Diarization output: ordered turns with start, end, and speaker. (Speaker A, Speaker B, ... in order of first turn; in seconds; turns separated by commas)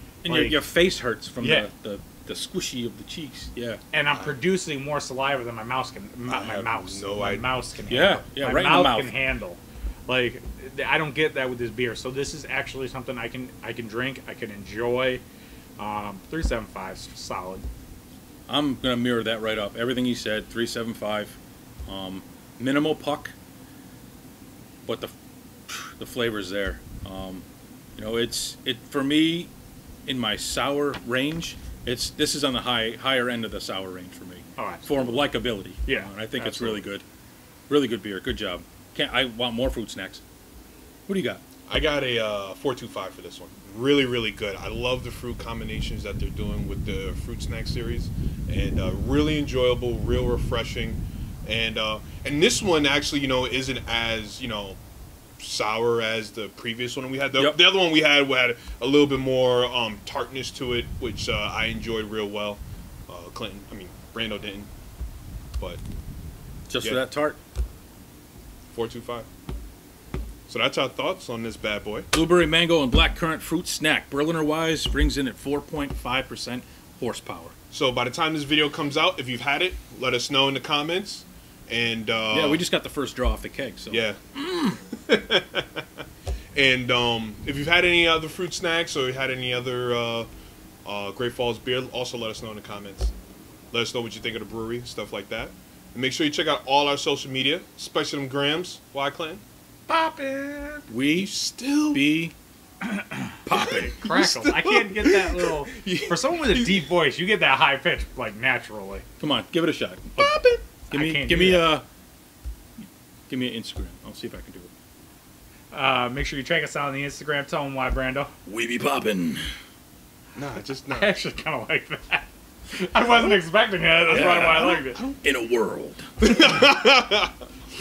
Speaker A: 0.2-3.8, Speaker B: 0.3-0.6, Speaker B: 1.4-1.7, Speaker B: 3.9-15.2, Speaker C: 4.1-4.4, Speaker C: 6.3-7.5, Speaker A: 7.9-9.1, Speaker B: 15.8-17.7, Speaker A: 18.5-23.3, Speaker A: 24.9-25.1, Speaker A: 25.7-27.4, Speaker A: 28.0-29.5, Speaker A: 30.1-37.0, Speaker B: 34.6-35.2, Speaker B: 35.9-36.9, Speaker A: 37.7-40.2, Speaker A: 41.1-41.4, Speaker C: 41.7-54.8, Speaker C: 55.4-64.7, Speaker A: 57.4-57.6, Speaker A: 66.7-67.4, Speaker C: 68.7-69.3, Speaker C: 70.5-72.1, Speaker A: 72.1-77.5, Speaker C: 77.7-82.6, Speaker A: 82.3-84.8, Speaker C: 83.9-84.2, Speaker C: 84.9-85.8, Speaker C: 86.5-90.3, Speaker C: 90.8-93.1, Speaker C: 93.7-99.4, Speaker B: 99.9-100.9, Speaker A: 100.9-102.3, Speaker C: 101.2-102.0, Speaker B: 102.8-109.0, Speaker A: 103.5-104.1, Speaker C: 103.6-106.9, Speaker A: 109.2-110.4, Speaker C: 110.2-110.6, Speaker B: 110.9-111.8, Speaker A: 110.9-111.8, Speaker A: 113.3-114.7, Speaker B: 115.7-118.3, Speaker A: 118.5-119.4, Speaker C: 120.3-121.2, Speaker B: 120.8-125.0, Speaker A: 124.1-126.1, Speaker C: 126.2-127.3